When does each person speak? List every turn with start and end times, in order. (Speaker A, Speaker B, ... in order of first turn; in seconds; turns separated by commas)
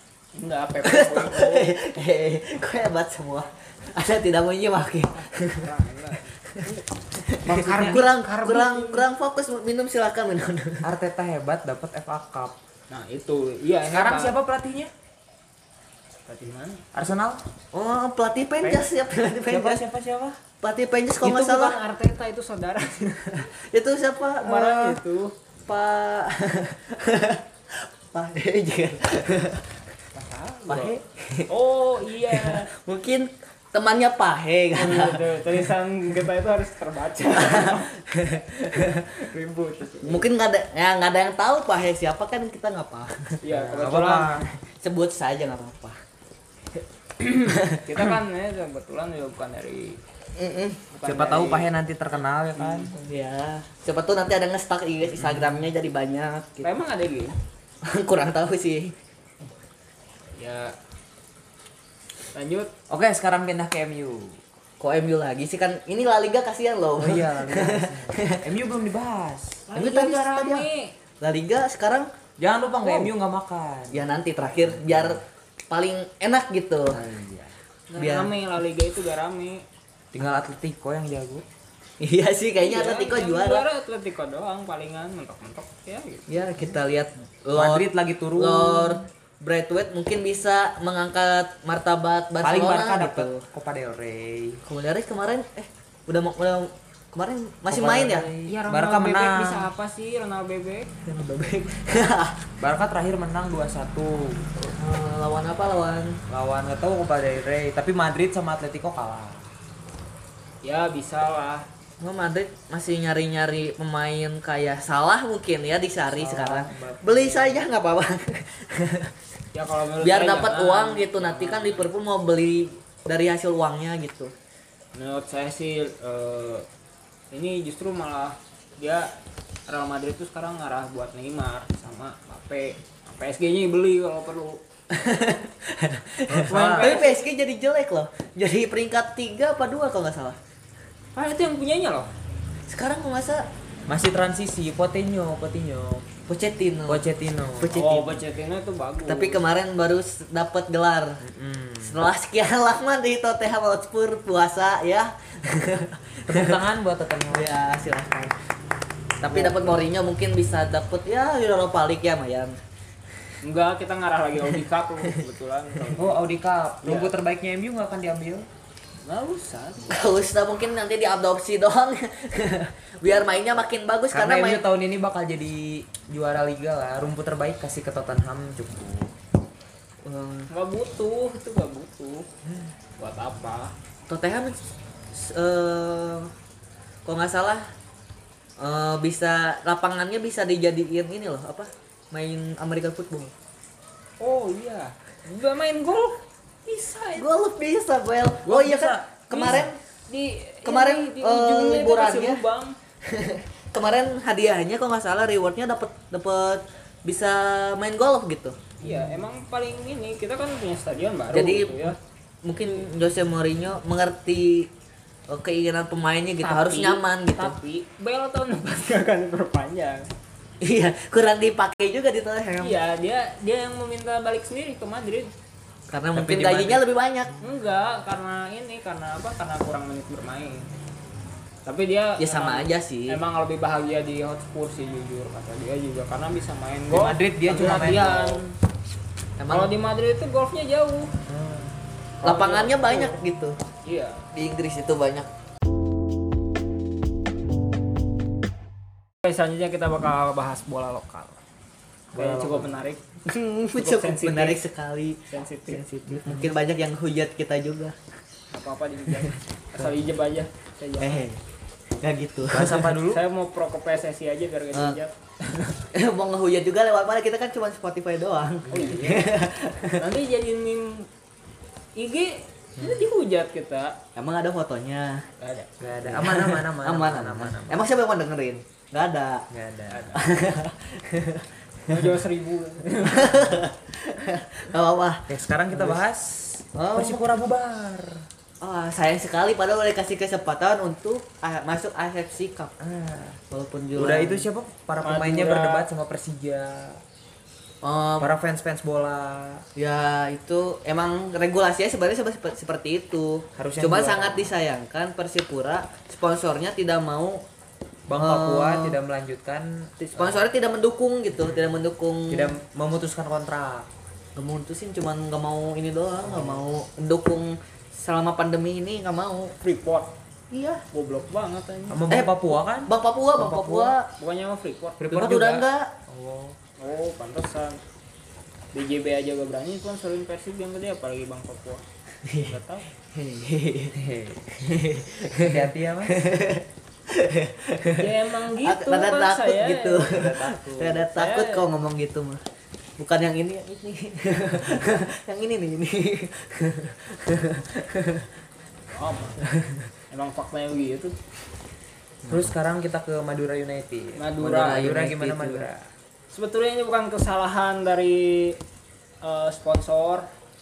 Speaker A: 0.4-1.7, Speaker B: 0.8-5.7, Speaker A: 5.2-6.8, Speaker B: 6.5-10.9, Speaker C: 7.4-8.1, Speaker A: 7.4-9.1, Speaker C: 10.8-12.6, Speaker A: 12.9-14.3, Speaker C: 13.9-14.9, Speaker A: 16.2-16.8, Speaker C: 16.9-17.4, Speaker B: 17.7-19.8, Speaker C: 19.5-20.4, Speaker B: 20.6-21.8, Speaker A: 21.2-23.5, Speaker B: 23.5-25.0, Speaker A: 24.4-25.3, Speaker B: 25.6-29.7, Speaker A: 30.1-30.9, Speaker B: 30.7-31.5, Speaker A: 31.5-32.7, Speaker B: 32.2-35.4, Speaker A: 34.7-37.9, Speaker B: 37.3-39.2, Speaker A: 39.0-40.3, Speaker B: 40.0-43.4, Speaker A: 43.4-44.4, Speaker C: 43.5-44.5, Speaker B: 44.6-46.0, Speaker A: 47.2-50.0, Speaker B: 47.4-47.8, Speaker B: 50.4-50.8, Speaker A: 50.9-51.7, Speaker C: 51.0-52.9, Speaker A: 52.6-52.9, Speaker B: 52.9-56.7, Speaker C: 55.1-55.6, Speaker A: 56.6-57.4, Speaker B: 57.8-59.0, Speaker A: 60.4-60.7, Speaker A: 62.3-62.7, Speaker C: 62.9-64.4, Speaker B: 64.8-68.4, Speaker C: 67.0-69.6, Speaker A: 69.7-70.9, Speaker B: 69.7-70.7, Speaker B: 71.2-72.1, Speaker C: 72.4-75.2, Speaker A: 72.8-73.1, Speaker B: 73.9-77.0, Speaker C: 76.9-77.5, Speaker A: 77.9-79.6, Speaker B: 78.0-78.3, Speaker C: 80.1-81.4, Speaker B: 82.0-83.6, Speaker A: 82.6-86.6, Speaker B: 86.3-93.4, Speaker C: 87.5-89.0, Speaker C: 92.4-94.6, Speaker B: 94.6-98.3, Speaker C: 97.7-99.7, Speaker A: 98.5-100.9, Speaker B: 101.0-102.4, Speaker C: 102.6-104.5, Speaker B: 104.6-106.2, Speaker C: 106.3-109.4, Speaker A: 110.6-111.7, Speaker B: 112.0-119.1, Speaker C: 116.1-117.7, Speaker A: 119.5-121.9, Speaker B: 120.0-124.3, Speaker A: 124.9-126.7, Speaker A: 127.3-129.1, Speaker A: 129.7-134.6, Speaker B: 134.9-140.4, Speaker C: 136.3-137.0, Speaker A: 136.5-137.2, Speaker A: 141.1-142.1, Speaker B: 142.7-143.5, Speaker C: 143.9-146.1, Speaker B: 146.3-147.1, Speaker C: 146.9-147.8, Speaker B: 147.6-148.2, Speaker A: 147.7-149.4, Speaker B: 149.1-151.2, Speaker C: 151.2-152.0, Speaker B: 151.8-156.6, Speaker C: 156.3-157.5, Speaker B: 157.3-158.3, Speaker B: 159.2-162.6, Speaker A: 163.4-166.2, Speaker C: 165.9-168.5, Speaker A: 166.8-167.1, Speaker A: 169.0-169.9, Speaker B: 169.9-174.6, Speaker C: 174.1-179.1, Speaker B: 180.0-180.5, Speaker A: 180.5-182.3, Speaker A: 183.0-183.7, Speaker B: 184.1-184.6, Speaker B: 185.1-186.3, Speaker B: 187.0-187.7, Speaker B: 188.6-193.3, Speaker A: 194.2-197.3, Speaker B: 197.2-199.8, Speaker C: 198.4-199.7, Speaker A: 199.3-202.8, Speaker B: 200.6-202.4, Speaker B: 203.0-208.7, Speaker A: 208.8-211.9, Speaker B: 211.3-214.7, Speaker B: 215.3-217.6, Speaker A: 216.4-220.1, Speaker B: 220.6-222.8, Speaker A: 222.6-225.3, Speaker B: 225.9-227.4, Speaker C: 226.1-226.8, Speaker A: 227.4-230.7, Speaker A: 231.7-238.5, Speaker B: 232.2-233.2, Speaker C: 236.9-238.4, Speaker B: 239.4-239.7, Speaker A: 239.5-241.1, Speaker C: 241.2-241.7, Speaker A: 242.2-243.2, Speaker B: 242.2-243.6, Speaker A: 243.8-244.2, Speaker B: 244.3-245.3, Speaker A: 249.2-251.4, Speaker C: 252.1-252.8, Speaker A: 252.1-253.0, Speaker B: 253.3-257.9, Speaker A: 253.7-254.6, Speaker A: 255.3-256.3, Speaker A: 258.5-261.2, Speaker B: 261.0-261.4, Speaker B: 262.0-262.9, Speaker C: 262.5-263.2, Speaker A: 263.0-265.1, Speaker B: 264.7-265.0, Speaker B: 265.6-270.1, Speaker C: 268.7-269.0, Speaker A: 268.7-269.3, Speaker A: 270.0-271.1, Speaker A: 271.9-274.0, Speaker B: 274.1-275.2, Speaker A: 275.4-275.8, Speaker C: 275.8-277.8, Speaker B: 276.0-279.4, Speaker C: 279.5-280.1, Speaker A: 279.9-280.3, Speaker B: 280.1-282.1, Speaker A: 281.9-283.6, Speaker B: 283.0-286.0, Speaker C: 285.3-288.2, Speaker B: 286.7-287.3, Speaker B: 288.6-292.8, Speaker C: 292.8-293.4, Speaker B: 293.5-294.5, Speaker C: 293.9-297.0, Speaker A: 295.0-295.9, Speaker B: 297.8-298.3, Speaker C: 298.2-299.6, Speaker B: 299.8-307.4, Speaker C: 303.6-304.5, Speaker C: 308.1-310.4, Speaker B: 308.1-309.0, Speaker B: 310.1-312.6, Speaker C: 312.3-313.9, Speaker B: 314.4-319.5, Speaker C: 316.2-316.6, Speaker A: 319.6-320.1, Speaker B: 320.5-320.8, Speaker A: 320.9-322.0, Speaker C: 321.9-323.9, Speaker B: 322.1-324.1, Speaker A: 324.2-325.1, Speaker C: 325.0-326.6, Speaker B: 325.1-325.9, Speaker A: 326.8-327.8, Speaker A: 328.7-332.9, Speaker B: 332.2-334.0, Speaker C: 333.9-334.8, Speaker B: 334.6-342.4, Speaker C: 335.3-336.3, Speaker A: 338.0-340.3, Speaker C: 340.0-341.1, Speaker A: 341.1-341.6, Speaker B: 343.0-348.3, Speaker A: 348.9-349.4, Speaker B: 349.5-349.9, Speaker A: 350.1-351.1, Speaker B: 352.2-352.5, Speaker C: 352.3-355.8, Speaker A: 354.1-354.9, Speaker B: 354.4-355.7, Speaker A: 356.3-358.6, Speaker A: 359.2-360.3